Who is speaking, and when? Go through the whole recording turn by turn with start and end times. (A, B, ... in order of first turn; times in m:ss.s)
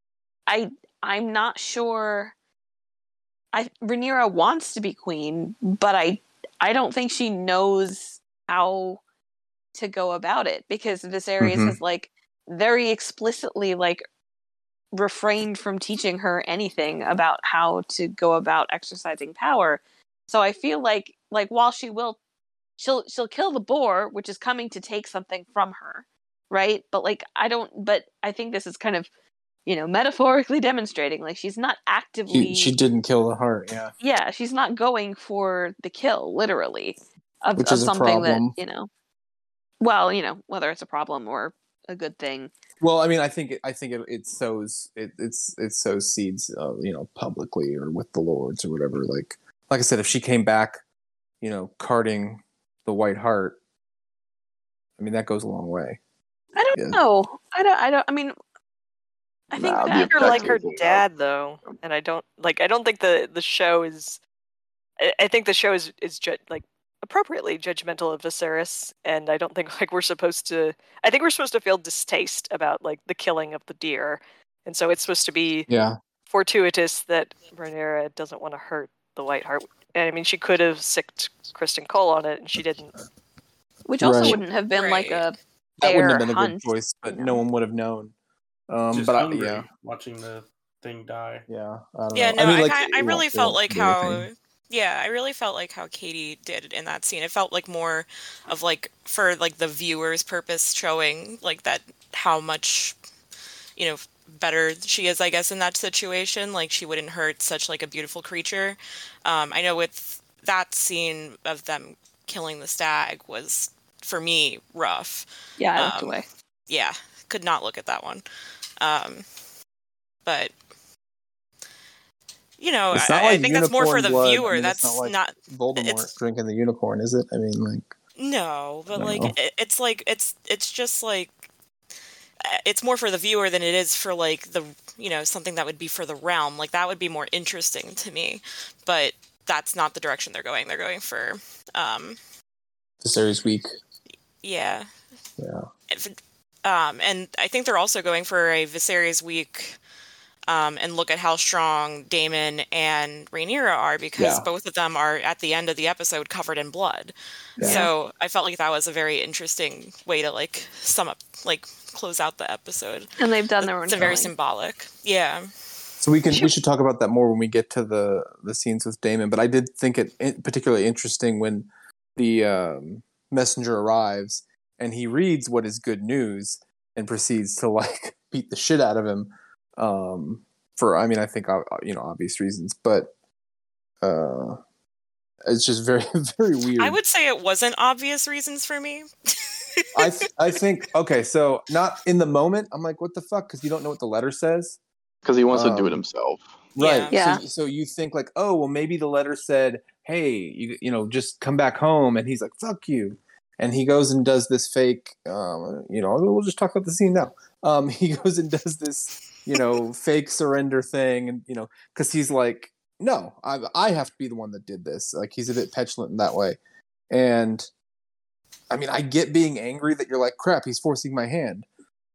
0:00.5-0:02.3 A
0:03.5-0:09.0 A
0:09.7-0:14.0 A
0:11.4-0:11.8 B
0:14.9-0:22.2 A
0:22.8-0:29.1 A
0:29.6-0:32.7 A
0:32.3-0:33.9 B
0:34.0-0:38.9 A
0:37.6-0:38.6 B
0:39.8-0:42.5 A
0:42.8-0:50.8 B
0:51.4-0:53.6 B
0:55.0-0:56.0 B
0:56.5-0:58.3 A
0:56.7-0:57.0 B
0:59.5-1:00.6 A
0:59.6-1:01.0 C
0:59.9-1:04.2 D
1:05.0-1:15.7 D
1:15.7-1:16.0 B
1:16.3-1:22.9 D
1:23.8-1:27.4 A
1:24.0-1:24.4 B
1:24.7-1:25.2 E
1:25.8-1:28.1 B
1:28.7-1:29.7 B
1:28.9-1:31.4 F
1:31.5-1:34.3 B
1:32.1-1:43.0 E
1:43.8-1:58.2 E
1:55.6-1:56.3 A
1:58.8-1:59.2 E
2:00.2-2:00.5 E
2:02.6-2:06.1 E
2:02.9-2:07.9 B
2:08.2-2:11.5 E
2:08.9-2:09.3 B
2:12.4-2:22.2 E
2:23.0-2:23.7 B
2:24.4-2:24.9 E
2:25.4-2:25.7 B
2:25.9-2:29.8 E
2:30.5-2:45.5 E
2:34.2-2:34.4 B
2:37.6-2:37.9 B
2:43.2-2:44.3 A
2:46.0-3:03.1 B
3:04.0-3:04.6 B
3:05.4-3:07.0 B
3:06.8-3:09.1 E
3:09.8-3:10.6 E
3:10.0-3:14.8 B
3:15.2-3:16.7 C
3:15.5-3:16.0 B
3:16.8-3:17.2 E
3:16.8-3:36.6 B
3:17.1-3:17.4 A
3:37.1-3:37.7 B
3:38.7-3:41.6 B